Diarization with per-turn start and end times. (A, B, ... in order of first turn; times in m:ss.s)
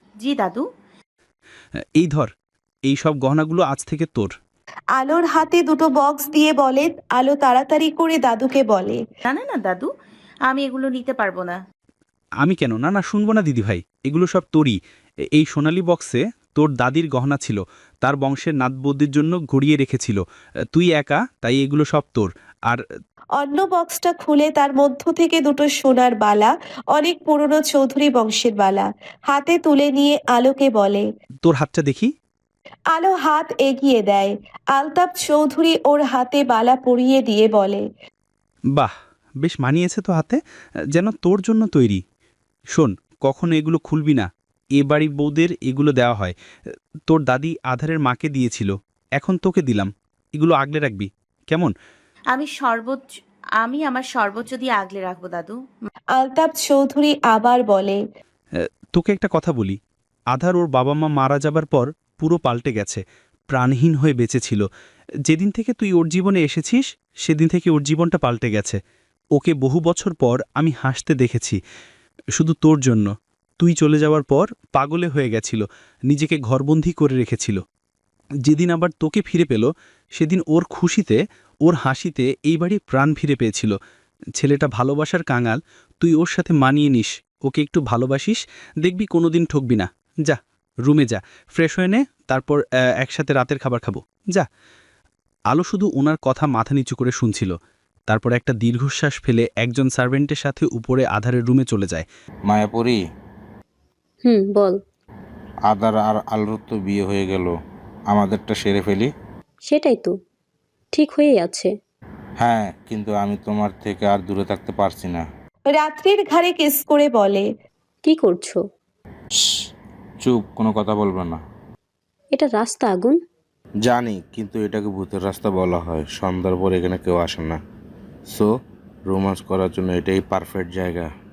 0:00.2-0:00.6 A
0:02.0-0:02.3 B
0:02.9-0:04.3 B
0:05.0-0:09.0 C
0:09.3-0:09.9 A
0:10.5-0:11.6 A
0:12.4-0:14.8 B
0:15.3-0:20.2 B
0:20.7-0:22.8 B
0:23.4-0:31.0 C
0:31.4-0:32.1 B
0:32.9-0:37.8 C
0:38.8-0:40.4 B
0:41.0-0:42.0 B
0:42.8-0:46.3 B
0:47.1-0:51.7 B
0:52.3-0:53.1 A
0:53.6-0:55.6 A
0:56.2-0:58.0 C
0:58.9-0:59.8 B
1:00.3-1:04.7 B
1:05.3-1:08.8 B
1:09.4-1:11.6 B
1:12.4-1:17.6 B
1:18.5-1:23.8 B
1:24.4-1:34.5 B
1:35.5-1:37.5 B
1:38.1-1:42.0 B
1:42.5-1:43.0 D
1:44.2-1:44.8 E
1:45.7-1:47.5 D
1:48.1-1:49.1 D
1:49.7-1:50.1 E
1:50.9-1:51.7 E
1:52.4-1:55.2 D
1:55.7-1:57.5 C
1:58.1-1:58.6 E
1:59.4-1:59.6 D
2:00.2-2:01.4 D
2:02.4-2:03.2 E
2:03.8-2:07.6 D
2:09.1-2:11.1 D